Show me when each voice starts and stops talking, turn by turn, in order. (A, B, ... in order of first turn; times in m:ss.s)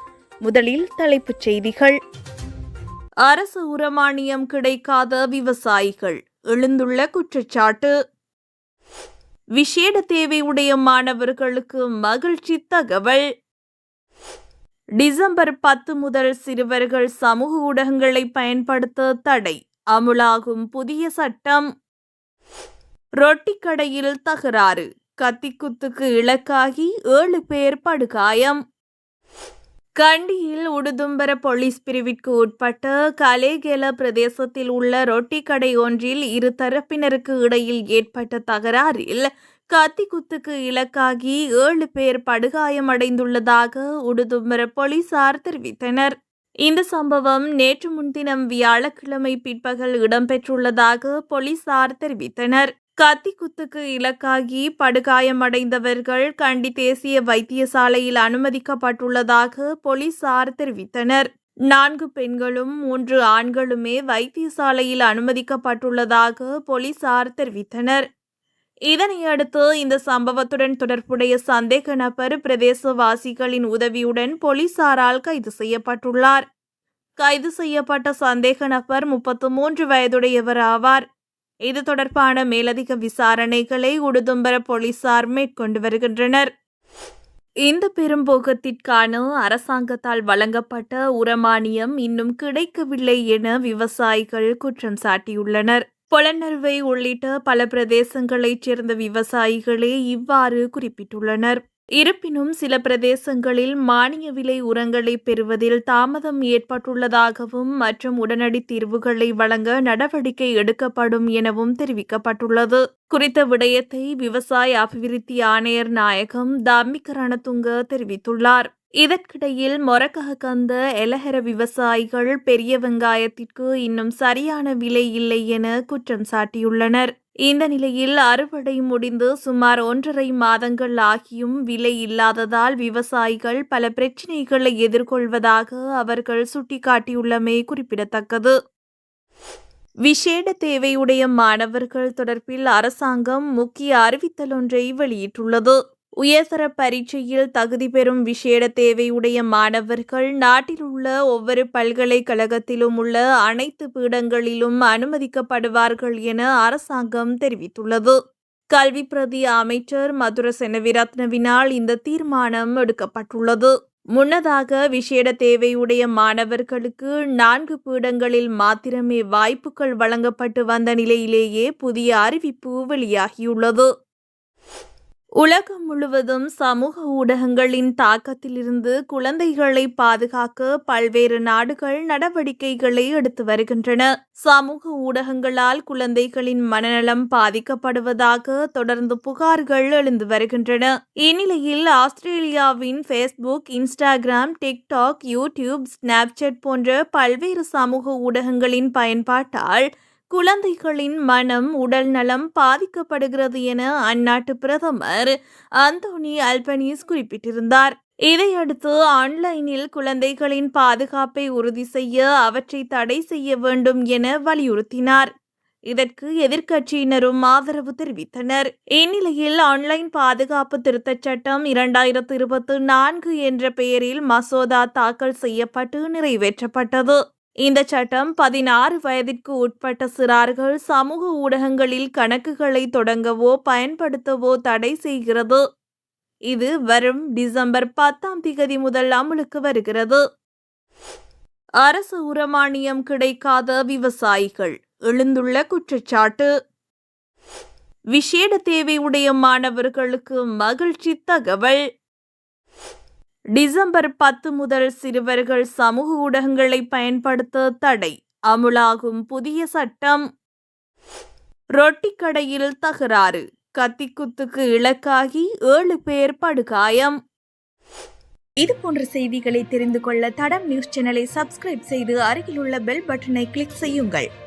0:00.4-0:02.0 A
0:03.2-0:07.9 A
0:09.6-0:13.2 A
0:15.0-0:21.6 A
0:23.2-0:28.6 A
0:30.0-0:46.1 A
0:46.6-1:08.0 A
1:08.9-1:16.4 A
1:17.2-1:21.0 A
1:21.7-1:26.5 A
1:27.6-2:18.5 A
2:20.1-2:38.2 A
2:38.7-2:53.9 A
2:55.4-3:35.3 A
3:35.9-3:55.6 A
3:56.5-4:00.2 A
4:01.8-4:06.5 A
4:08.1-4:11.8 A
4:13.6-4:20.2 A
4:21.8-4:27.1 A
4:28.6-4:34.2 A